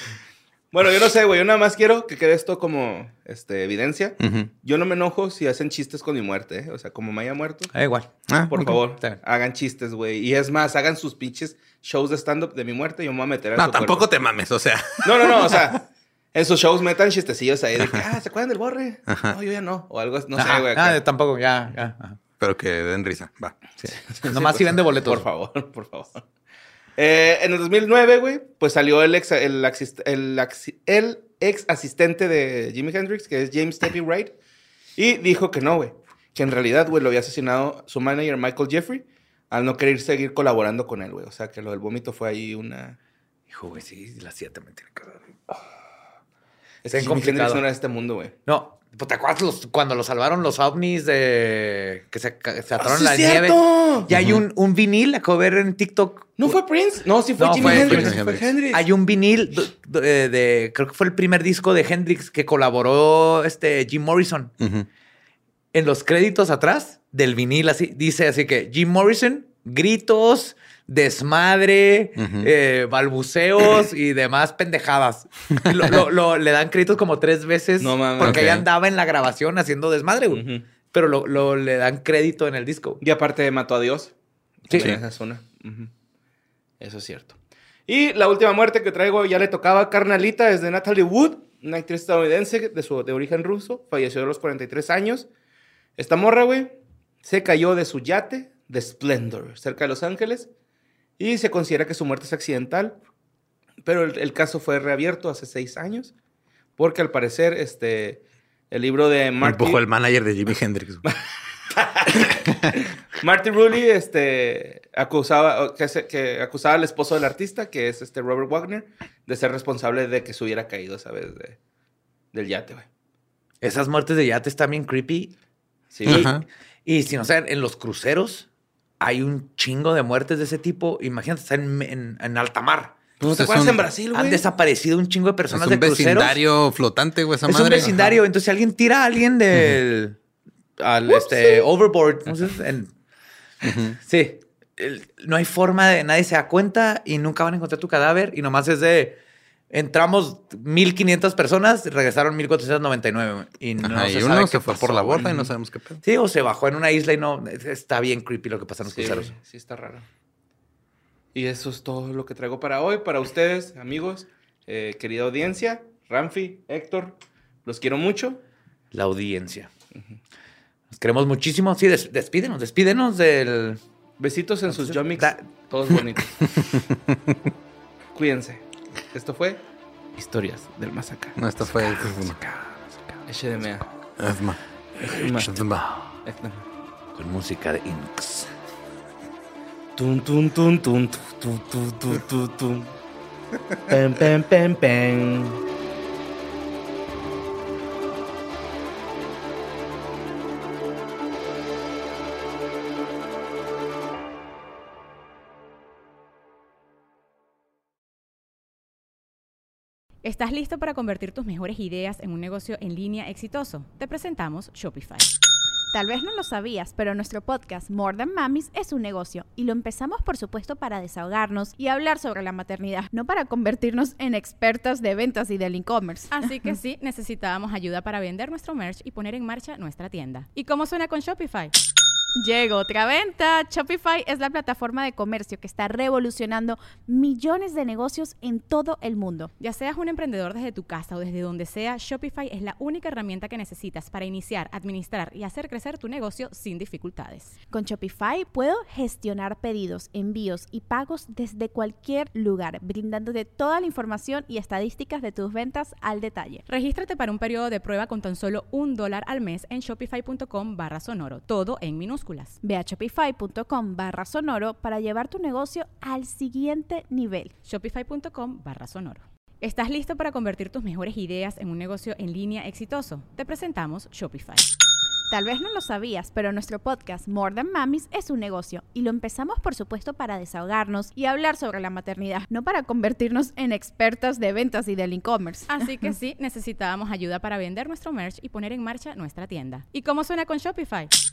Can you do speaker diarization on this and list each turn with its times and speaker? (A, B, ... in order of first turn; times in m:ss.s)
0:00.7-0:07.7 A
0:04.2-0:04.5 B
0:07.7-0:09.2 C
0:08.3-0:08.6 B
0:08.5-0:14.1 A
0:13.6-0:15.7 B
0:15.0-0:21.0 A
0:19.1-0:19.4 B
0:20.4-0:22.2 C
0:22.4-0:23.6 B
0:23.8-0:25.2 C
0:24.1-0:26.2 A
0:27.0-0:34.4 A
0:35.0-0:43.0 A
0:43.5-0:45.3 C
0:46.8-0:48.4 A
0:46.9-0:47.6 C
0:48.5-0:56.6 C
0:52.8-0:54.1 A
0:54.1-0:54.4 B
0:56.4-0:58.8 A
0:57.4-0:58.2 C
0:57.5-0:58.5 B
0:58.7-1:04.5 C
1:04.6-1:04.9 B
1:05.7-1:23.0 C
1:12.2-1:12.5 B
1:17.8-1:18.5 A
1:18.2-1:18.7 B
1:20.3-1:20.6 A
1:23.0-1:24.1 A
1:24.7-1:25.9 A
1:24.7-1:25.0 B
1:26.8-1:35.3 A
1:36.0-1:40.5 A
1:41.2-1:43.0 A
1:43.8-1:46.1 A
1:46.8-1:49.8 A
1:49.4-1:51.0 B
1:51.7-2:01.6 A
1:52.3-1:52.6 B
2:02.3-2:02.9 A
2:03.6-2:05.3 C
2:05.9-2:06.3 A
2:06.1-2:06.4 C
2:06.1-2:06.4 B
2:06.9-2:08.5 C
2:09.0-2:13.0 C
2:13.2-2:14.4 A
2:13.3-2:13.9 B
2:14.1-2:16.4 C
2:15.5-2:18.1 B
2:17.5-2:20.2 C
2:20.8-2:22.9 C
2:23.6-2:24.0 B
2:24.0-2:29.2 C
2:29.7-2:35.5 C
2:33.8-2:36.0 B
2:36.0-2:39.3 C
2:38.8-2:40.1 A
2:41.3-2:48.4 A
2:48.9-2:49.7 C
2:50.9-2:53.8 C
2:54.2-2:56.4 A
2:54.7-2:55.4 C
2:56.6-2:57.4 B
2:58.2-2:59.6 A
3:00.2-3:01.4 A
3:01.4-3:02.4 B
3:01.7-3:03.2 C
3:03.3-3:03.9 A
3:04.2-3:05.8 B
3:05.1-3:05.6 A
3:06.2-3:06.6 A
3:07.2-3:08.5 C
3:10.0-3:12.9 A
3:13.9-3:15.6 A
3:30.2-3:35.3 D
3:35.9-3:46.4 E
3:46.3-3:51.7 D
3:52.4-3:59.5 E
3:59.6-4:07.5 D
4:07.7-4:16.6 E
4:16.7-4:22.6 D
4:22.6-4:27.5 E
4:27.6-4:34.7 D
4:35.3-4:46.1 E
4:45.7-4:51.1 D